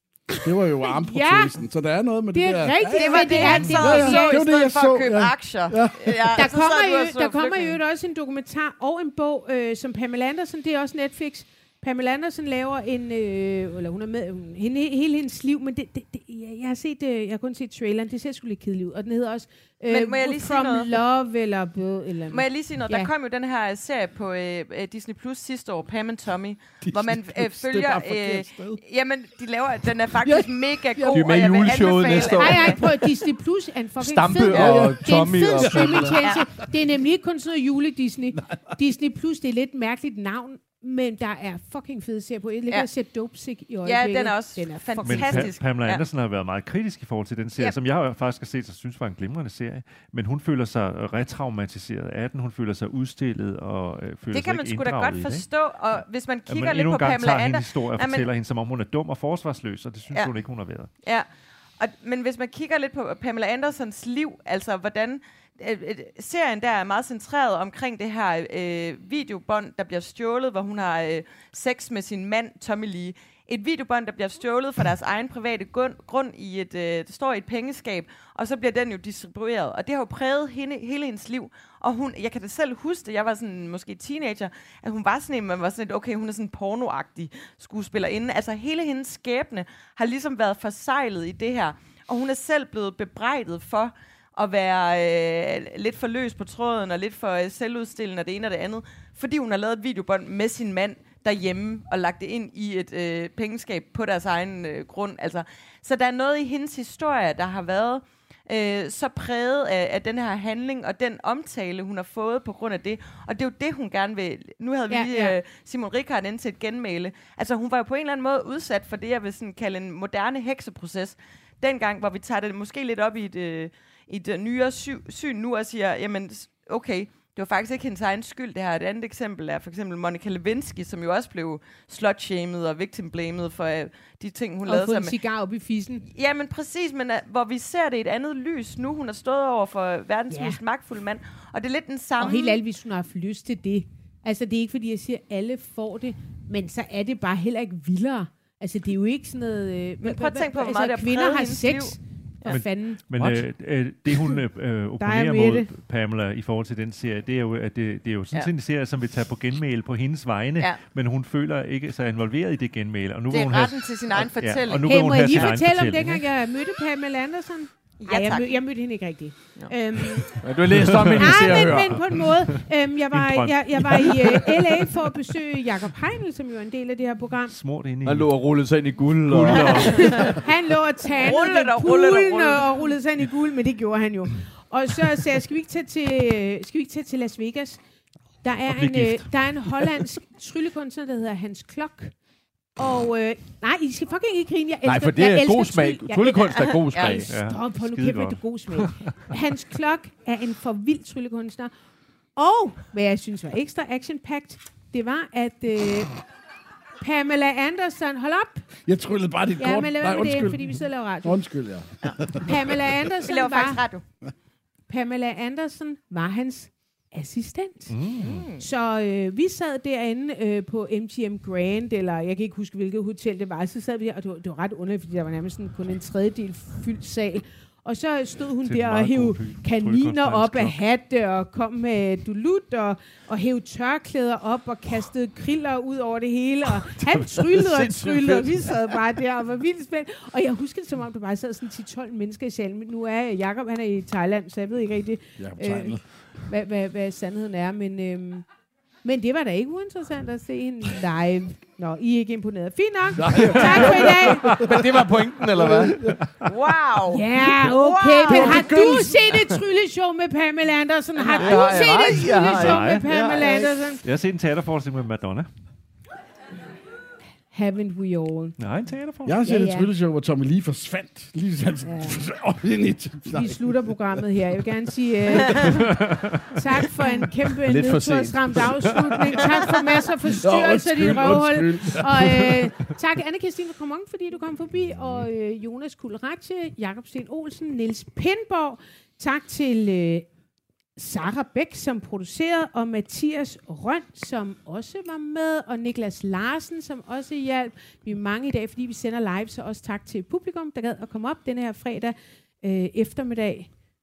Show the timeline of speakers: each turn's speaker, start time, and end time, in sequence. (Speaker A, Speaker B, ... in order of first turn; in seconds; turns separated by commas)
Speaker A: 0.3-1.5, Speaker B: 0.4-6.4, Speaker A: 2.3-4.4, Speaker C: 2.9-7.8, Speaker A: 6.4-23.1, Speaker C: 19.9-20.9, Speaker C: 22.3-32.8, Speaker B: 26.9-28.8, Speaker B: 30.2-31.3, Speaker D: 31.1-32.8, Speaker A: 32.3-45.5, Speaker D: 34.0-36.2, Speaker C: 34.4-34.7, Speaker B: 34.5-36.1, Speaker B: 38.4-38.8, Speaker C: 43.8-46.0, Speaker E: 45.0-55.5, Speaker C: 54.3-58.3, Speaker E: 56.5-60.9, Speaker C: 61.8-135.2, Speaker A: 114.9-115.4, Speaker A: 134.7-136.0, Speaker C: 136.2-142.6, Speaker A: 140.3-140.6, Speaker A: 142.2-153.3, Speaker C: 150.0-152.6, Speaker E: 152.5-166.3, Speaker A: 155.0-155.7, Speaker C: 163.3-165.6, Speaker A: 164.8-170.4, Speaker C: 168.0-168.6, Speaker D: 170.4-172.2, Speaker E: 170.7-175.4, Speaker A: 171.2-177.5, Speaker E: 177.5-180.4, Speaker D: 178.0-180.4, Speaker C: 179.5-180.2, Speaker A: 179.7-187.8, Speaker C: 181.2-183.0, Speaker A: 188.4-192.1, Speaker E: 188.7-190.1, Speaker A: 192.8-196.2, Speaker D: 194.8-197.3, Speaker C: 196.2-197.3, Speaker E: 197.3-199.2, Speaker A: 197.3-201.7, Speaker A: 202.4-206.2, Speaker A: 207.0-208.7, Speaker B: 208.9-212.8, Speaker A: 209.6-211.4, Speaker A: 212.4-213.8, Speaker C: 213.3-214.0, Speaker A: 214.9-217.9, Speaker E: 217.9-218.5, Speaker C: 218.2-218.6, Speaker A: 218.6-248.4, Speaker E: 228.7-230.8, Speaker D: 237.1-238.9, Speaker B: 245.4-246.0, Speaker A: 249.0-254.5, Speaker B: 253.2-256.2, Speaker E: 253.4-254.7, Speaker D: 254.6-256.0, Speaker E: 256.2-256.5, Speaker C: 256.4-258.7, Speaker A: 257.1-264.0, Speaker B: 258.3-259.2, Speaker D: 258.5-258.8, Speaker D: 261.3-263.7, Speaker E: 262.6-263.1, Speaker E: 264.0-265.5, Speaker A: 267.5-268.6, Speaker E: 268.6-269.4, Speaker B: 269.3-274.5, Speaker A: 269.4-269.9, Speaker A: 271.9-272.3, Speaker A: 273.3-276.0, Speaker E: 275.9-276.6, Speaker A: 276.5-290.3, Speaker D: 277.7-279.1, Speaker B: 280.3-282.7, Speaker A: 291.0-303.7